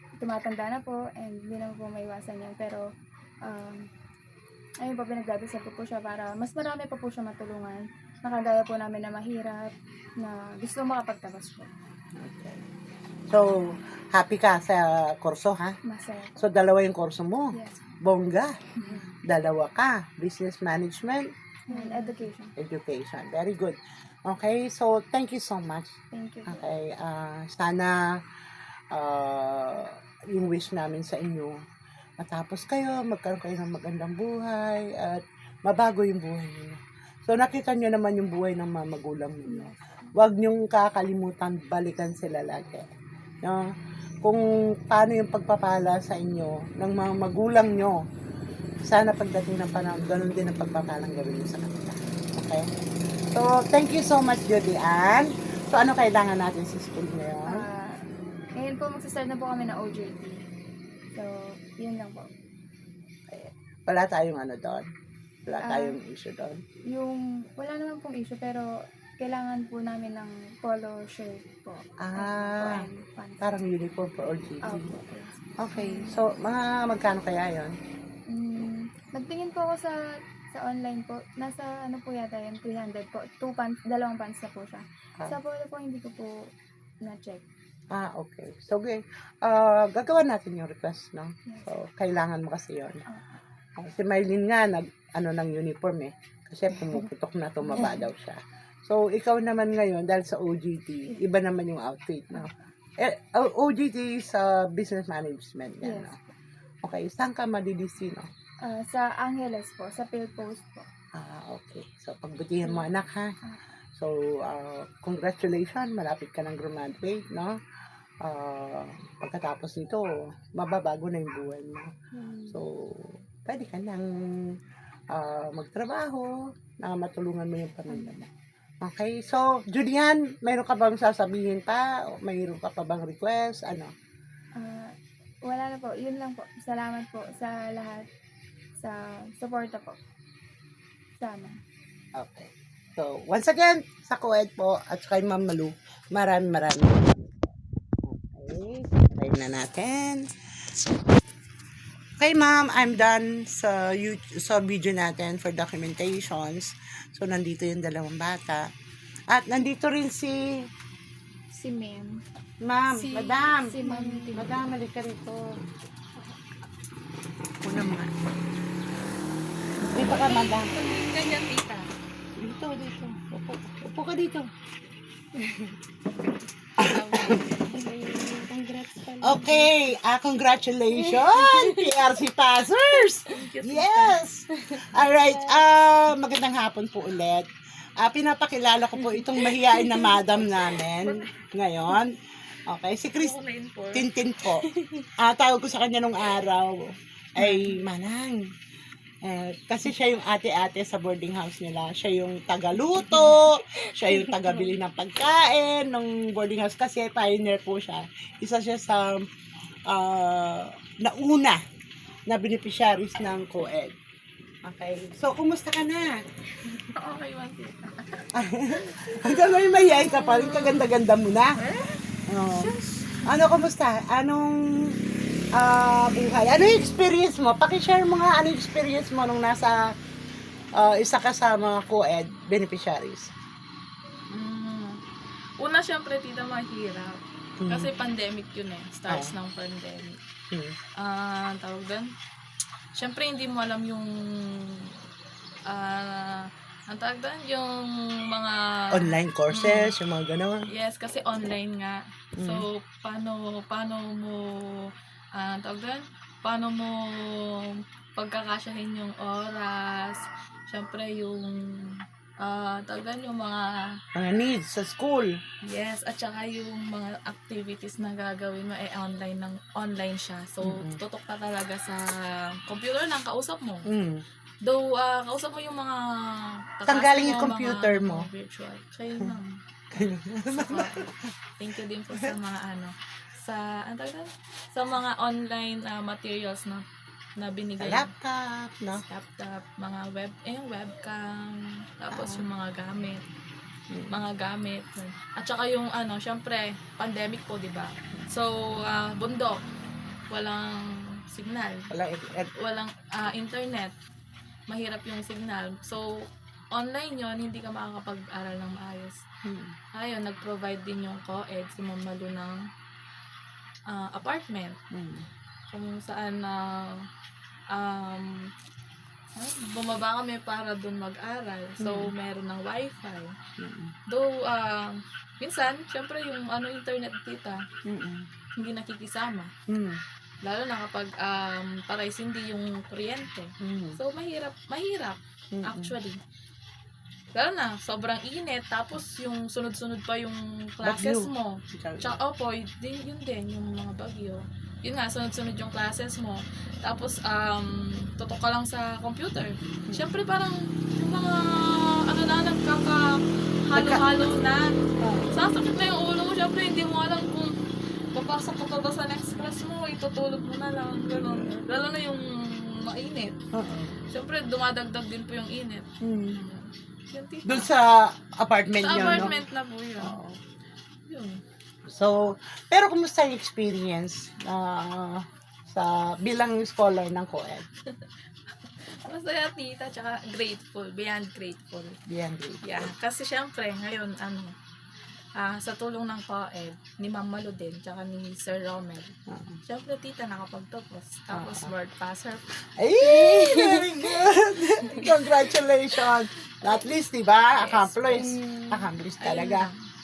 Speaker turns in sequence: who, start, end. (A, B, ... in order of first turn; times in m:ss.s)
0:00.2-0:02.9 A
0:03.4-0:03.9 A
0:04.8-0:11.7 A
0:12.2-0:12.6 B
0:13.3-0:15.8 B
0:15.8-0:16.4 A
0:16.4-0:21.3 B
0:17.5-0:17.8 A
0:21.7-0:22.5 A
0:21.7-0:22.1 C
0:22.6-0:28.0 B
0:26.1-0:26.6 A
0:28.9-0:31.6 B
0:32.2-0:42.9 B
0:39.4-0:40.1 A
0:43.4-0:43.7 B
0:44.2-0:48.0 B
0:48.8-0:52.7 B
0:53.3-0:57.7 B
0:57.4-0:58.0 A
0:58.6-1:00.4 A
1:01.1-1:02.3 A
1:03.3-1:04.8 B
1:05.4-1:06.6 B
1:05.6-1:06.0 A
1:06.9-1:13.6 A
1:12.0-1:12.9 B
1:13.4-1:14.9 B
1:14.6-1:16.2 A
1:15.6-1:17.8 B
1:18.3-1:26.5 A
1:27.0-1:27.4 A
1:27.9-1:33.0 B
1:31.4-1:31.7 A
1:33.1-1:33.4 A
1:33.8-1:46.2 B
1:37.7-1:38.0 A
1:45.8-1:46.3 A
1:46.8-1:48.3 B
1:48.6-1:50.9 A
1:51.1-1:53.3 B
1:54.0-1:57.6 B
1:58.2-2:01.9 B
2:02.1-2:02.6 A
2:02.5-2:04.6 B
2:05.1-2:08.3 B
2:07.9-2:08.1 A
2:08.8-2:13.9 B
2:14.6-2:14.9 A
2:15.4-2:18.1 A
2:18.8-2:20.0 A
2:21.2-2:21.6 A
2:22.2-2:30.3 B
2:32.2-2:38.7 B
2:39.3-2:40.6 B
2:41.6-2:42.1 A
2:42.6-2:43.8 B
2:42.9-2:44.7 A
2:43.8-2:44.3 C
2:44.3-2:45.6 B
2:47.6-2:48.2 B
2:49.9-2:50.7 B
2:49.9-2:51.9 C
2:52.4-2:54.5 B
2:56.8-2:59.7 C
2:56.8-2:57.4 B
2:59.2-3:13.4 B
3:01.1-3:01.8 C
3:03.0-3:05.6 C
3:09.1-3:11.3 C
3:13.2-3:14.1 C
3:13.9-3:18.5 B
3:14.7-3:15.0 C
3:17.4-3:17.8 C
3:19.2-3:29.3 B
3:23.1-3:23.5 C
3:24.0-3:24.7 C
3:29.9-3:31.6 B
3:32.3-3:34.0 B
3:34.6-3:36.2 B
3:36.6-3:40.9 C
3:38.3-3:41.6 B
3:41.6-3:43.4 C
3:42.3-3:45.0 B
3:45.5-3:49.9 B
3:50.7-3:53.3 B
3:54.3-3:55.0 C
3:55.6-4:00.2 C
3:57.6-3:57.9 B
3:59.1-3:59.3 B
4:01.0-4:02.1 C
4:02.9-4:05.0 C
4:05.7-4:09.9 C
4:08.9-4:10.7 B
4:10.7-4:24.0 C
4:12.4-4:12.6 B
4:24.1-4:25.3 B
4:25.6-4:33.8 C
4:30.6-4:31.0 B
4:33.8-4:34.2 B
4:34.6-4:36.0 C
4:36.8-4:39.6 C
4:36.9-4:38.3 B
4:39.9-4:41.0 B
4:40.5-4:46.8 C
4:47.4-4:48.1 C
4:47.8-4:49.0 B
4:48.9-4:53.2 C
4:52.1-4:52.4 B
4:53.9-4:54.2 B
4:54.1-4:59.6 C
5:00.3-5:01.9 C
5:01.9-5:02.5 B
5:02.6-5:03.9 C
5:04.7-5:09.2 C
5:09.4-5:09.7 B
5:09.9-5:12.6 C
5:13.9-5:14.8 C
5:14.9-5:15.2 B
5:15.7-5:17.0 C
5:17.7-5:18.5 C
5:19.4-5:23.3 C
5:21.8-5:22.1 B
5:23.6-5:23.9 B
5:24.1-5:27.6 C
5:27.8-5:28.3 B
5:28.6-5:29.5 C
5:29.7-5:30.0 B
5:30.4-5:36.2 C
5:33.6-5:34.0 B
5:35.5-5:36.0 B
5:37.3-5:54.7 C
5:40.8-5:42.2 B
5:53.7-5:54.0 B
5:55.0-5:55.3 B
5:55.3-5:57.6 C
5:58.1-6:03.4 C
6:01.1-6:01.6 B
6:03.5-6:04.0 B
6:04.1-6:07.7 C
6:06.0-6:06.4 B
6:07.4-6:09.4 B
6:08.8-6:10.2 C
6:10.0-6:10.4 B
6:11.1-6:11.4 C
6:11.8-6:17.6 B
6:18.6-6:22.0 C
6:22.1-6:22.8 B
6:22.6-6:24.5 C
6:25.4-6:29.1 C
6:29.3-6:29.6 B
6:29.6-6:32.4 C
6:31.3-6:31.7 B
6:32.8-6:39.7 B
6:33.0-6:34.3 C
6:37.5-6:39.8 C